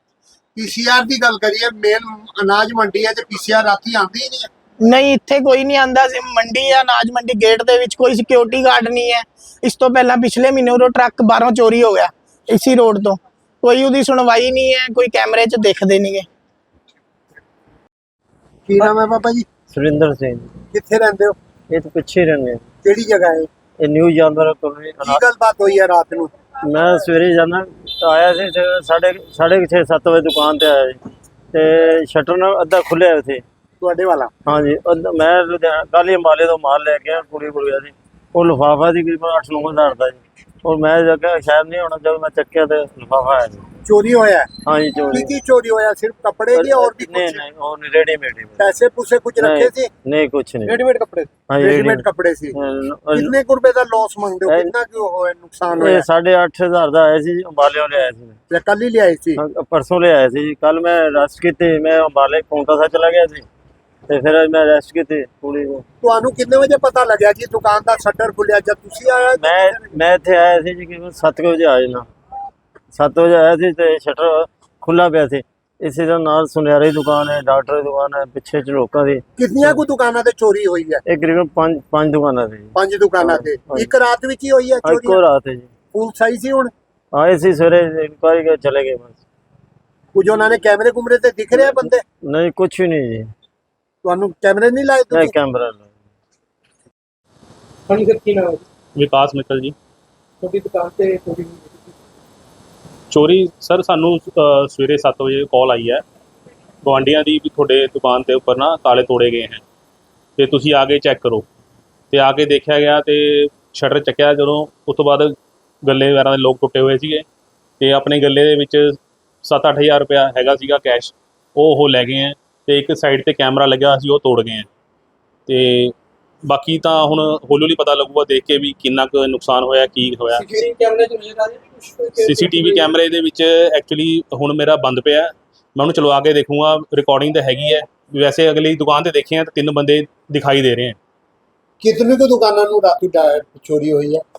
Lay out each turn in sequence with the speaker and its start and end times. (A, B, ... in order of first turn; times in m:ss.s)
0:00.6-0:04.5 A
0:04.8-0:16.2 B
0:18.7-0:19.5 A
0:19.7-0:20.5 C
0:20.7-0:21.4 A
0:21.7-0:22.6 C
0:22.8-0:23.5 A
0:23.8-0:25.2 C
0:25.0-0:26.3 A
0:26.7-0:31.0 C
0:31.5-0:33.4 C
0:33.8-0:34.3 A
0:34.5-0:43.6 C
0:43.8-0:44.5 A
0:44.6-0:45.3 C
0:45.1-0:47.4 A
0:46.5-0:48.7 C
0:48.6-0:49.9 A
0:49.4-0:50.8 C
0:50.7-0:51.4 D
0:51.5-0:53.3 C
0:51.6-0:52.6 A
0:53.1-0:56.1 A
0:54.5-0:54.7 C
0:55.7-0:58.4 C
0:58.5-0:59.4 A
0:59.4-1:03.4 C
1:04.1-1:05.8 C
1:06.0-1:09.9 A
1:09.4-1:12.1 C
1:12.9-1:19.7 C
1:19.4-1:21.0 A
1:21.1-1:22.7 C
1:22.7-1:25.2 A
1:23.2-1:23.9 C
1:24.8-1:25.7 C
1:25.9-1:26.7 A
1:27.1-1:29.2 C
1:30.1-1:32.0 A
1:31.6-1:33.3 C
1:34.0-1:35.4 A
1:35.1-1:35.9 C
1:37.9-1:38.6 D
1:39.0-1:39.7 E
1:40.4-1:41.9 D
1:43.1-1:46.0 E
1:46.8-1:49.6 E
1:50.4-1:51.4 E
1:52.1-1:57.2 E
1:57.8-2:04.7 E
2:05.5-2:05.9 E
2:06.4-2:10.5 E
2:10.3-2:12.9 D
2:12.2-2:21.0 E
2:21.8-2:24.2 A